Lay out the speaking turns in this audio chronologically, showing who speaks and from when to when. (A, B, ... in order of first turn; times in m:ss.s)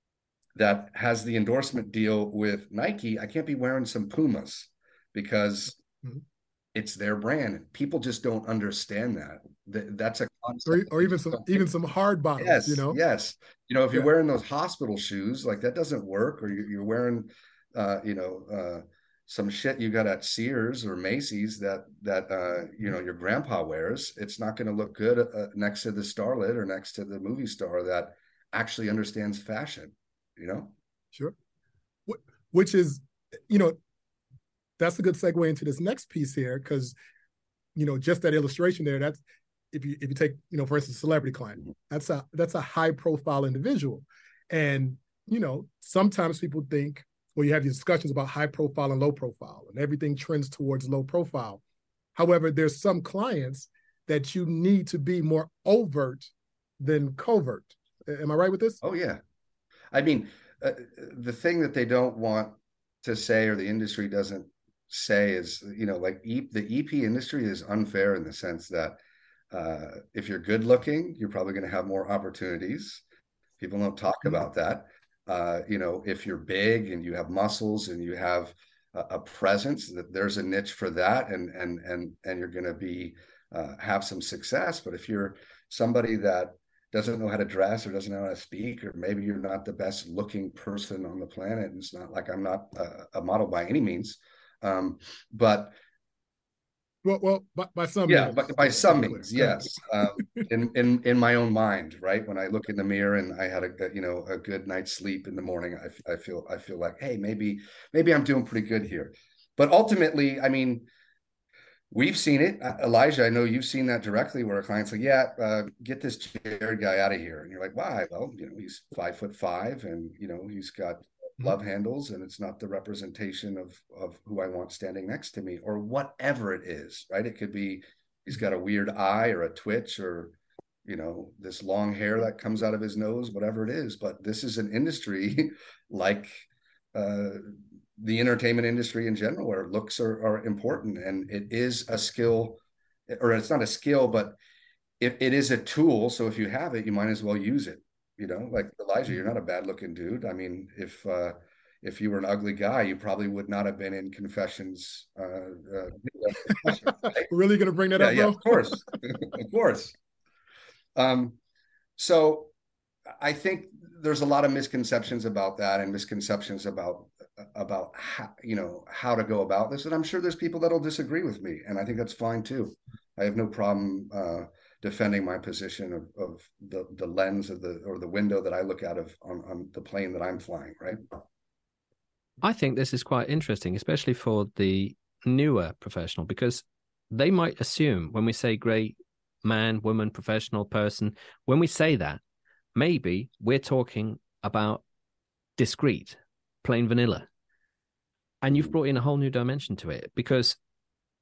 0:00.6-0:05.8 A
0:06.7-0:11.6 A
0:10.6-0:13.0 B
0:12.4-0:30.7 A
0:32.1-0:33.8 B
0:34.8-0:36.9 B
0:37.8-0:39.2 B
0:39.7-0:51.6 B
0:52.1-0:58.8 B
0:58.8-0:59.2 A
0:59.9-1:09.0 A
1:09.5-1:13.0 A
1:13.6-1:35.7 A
1:37.0-1:39.5 B
1:38.0-1:50.9 A
1:51.9-2:24.4 A
2:25.0-2:37.3 A
2:37.2-2:38.7 B
2:37.9-2:40.0 A
2:41.0-2:41.4 A
2:42.0-2:42.5 A
2:43.2-3:01.0 A
3:02.4-3:12.2 C
3:12.7-3:14.8 C
3:15.6-3:17.3 C
3:18.4-3:20.6 C